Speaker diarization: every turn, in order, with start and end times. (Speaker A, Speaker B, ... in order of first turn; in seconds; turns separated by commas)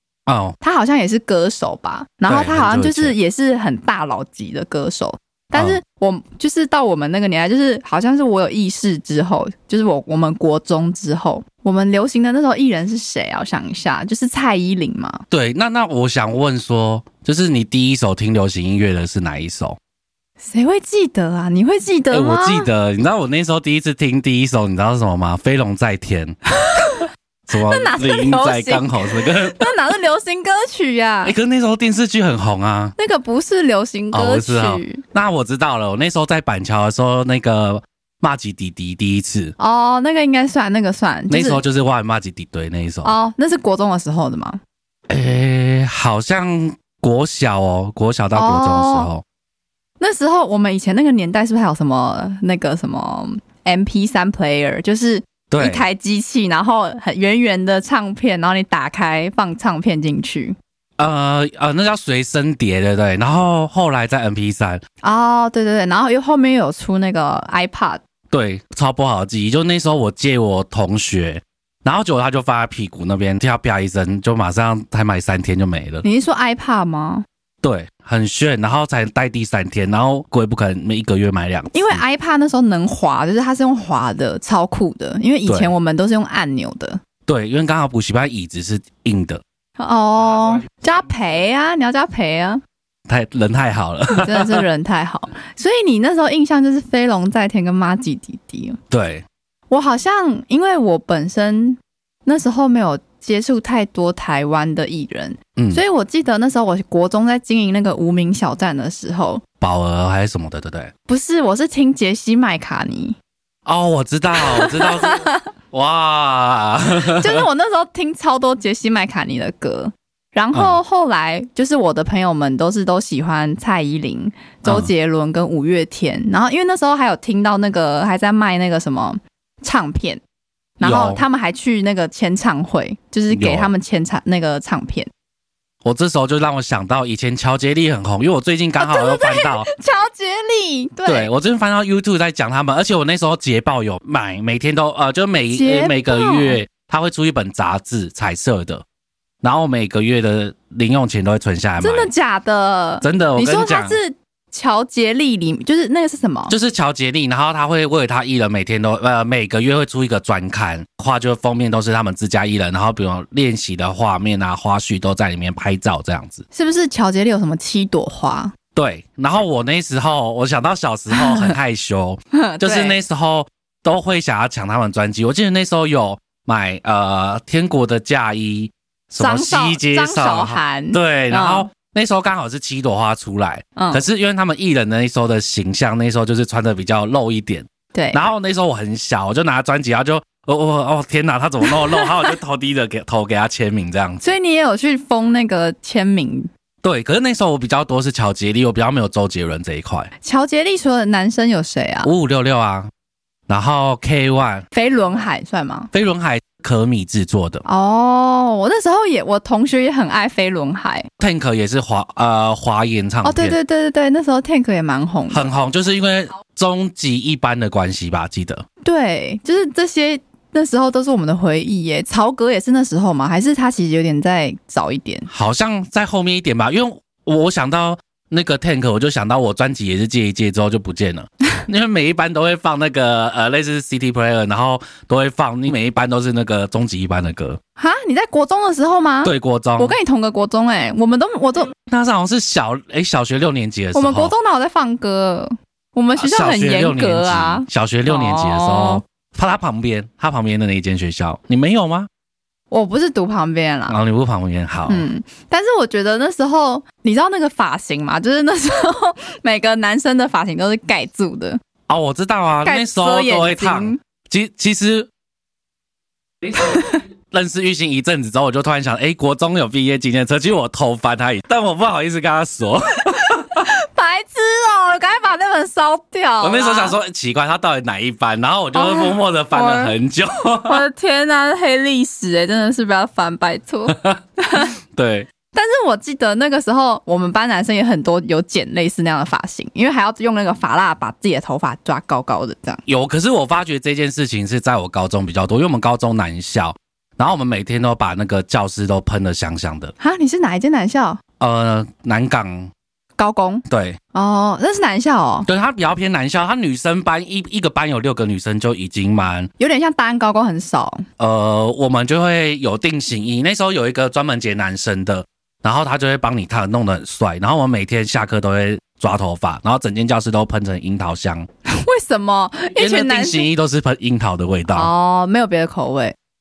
Speaker A: 0.3-0.6, Speaker B: 0.6-15.2, Speaker A: 2.3-3.1, Speaker A: 5.5-5.8, Speaker A: 15.3-19.8, Speaker B: 20.4-22.7, Speaker A: 22.1-26.4, Speaker B: 26.6-27.1, Speaker A: 27.5-29.6, Speaker B: 27.6-31.4, Speaker A: 31.2-33.0, Speaker B: 33.0-35.0, Speaker A: 34.1-39.5, Speaker B: 39.6-41.6, Speaker A: 41.3-43.1, Speaker B: 43.0-44.6, Speaker A: 45.1-49.2, Speaker B: 48.3-49.1, Speaker B: 50.0-60.6, Speaker A: 55.5-55.8, Speaker A: 61.0-64.8, Speaker B: 65.0-68.0, Speaker A: 68.3-76.0, Speaker B: 76.0-77.2, Speaker A: 77.6-82.0, Speaker B: 81.7-87.0, Speaker A: 85.5-85.7, Speaker A: 87.3-89.4, Speaker B: 89.8-92.6, Speaker A: 93.1-94.7, Speaker B: 94.1-98.8, Speaker A: 98.9-99.2, Speaker B: 99.7-109.4, Speaker A: 105.6-105.8, Speaker A: 109.6-110.9, Speaker B: 111.1-113.2, Speaker A: 113.7-117.4, Speaker B: 114.4-115.4, Speaker B: 117.2-130.2, Speaker A: 120.5-120.8, Speaker B: 130.8-135.1, Speaker A: 130.8-131.2, Speaker A: 133.3-133.7, Speaker A: 135.8-139.7, Speaker B: 138.8-141.3, Speaker A: 141.1-148.8, Speaker B: 145.5-146.6, Speaker A: 149.4-152.1, Speaker B: 151.8-156.6, Speaker A: 153.0-154.0, Speaker A: 156.5-166.4, Speaker B: 166.5-168.5, Speaker A: 168.8-194.2, Speaker B: 171.1-171.5, Speaker B: 172.3-173.0, Speaker B: 179.2-181.7, Speaker B: 183.8-184.0, Speaker B: 187.9-188.2, Speaker B: 191.7-192.1, Speaker B: 194.2-196.5, Speaker A: 196.8-200.1, Speaker B: 200.2-202.1, Speaker A: 202.0-202.9, Speaker A: 203.5-204.6, Speaker B: 204.7-205.9, Speaker A: 205.9-207.6, Speaker B: 207.7-211.1, Speaker A: 211.2-213.6, Speaker B: 213.2-215.4, Speaker A: 215.3-218.6, Speaker B: 218.8-225.3, Speaker A: 225.3-237.6, Speaker B: 237.8-241.7, Speaker A: 239.2-240.0, Speaker A: 241.8-244.3, Speaker B: 243.9-249.0, Speaker A: 246.2-252.1, Speaker B: 252.7-254.0, Speaker A: 253.9-255.1, Speaker B: 254.9-261.6, Speaker A: 261.9-265.1, Speaker B: 262.6-264.0, Speaker A: 266.5-273.6, Speaker B: 266.6-267.0, Speaker B: 273.2-277.0, Speaker A: 276.4-280.8, Speaker B: 278.8-279.9, Speaker B: 280.6-284.7, Speaker A: 283.9-285.3, Speaker B: 285.5-292.8, Speaker A: 292.9-299.9, Speaker B: 300.0-301.2, Speaker A: 301.4-302.7, Speaker B: 303.2-305.5, Speaker A: 303.7-304.0, Speaker A: 305.5-309.5, Speaker B: 309.6-311.1, Speaker A: 311.2-321.5, Speaker B: 321.7-323.5, Speaker A: 322.8-324.9, Speaker B: 324.7-326.2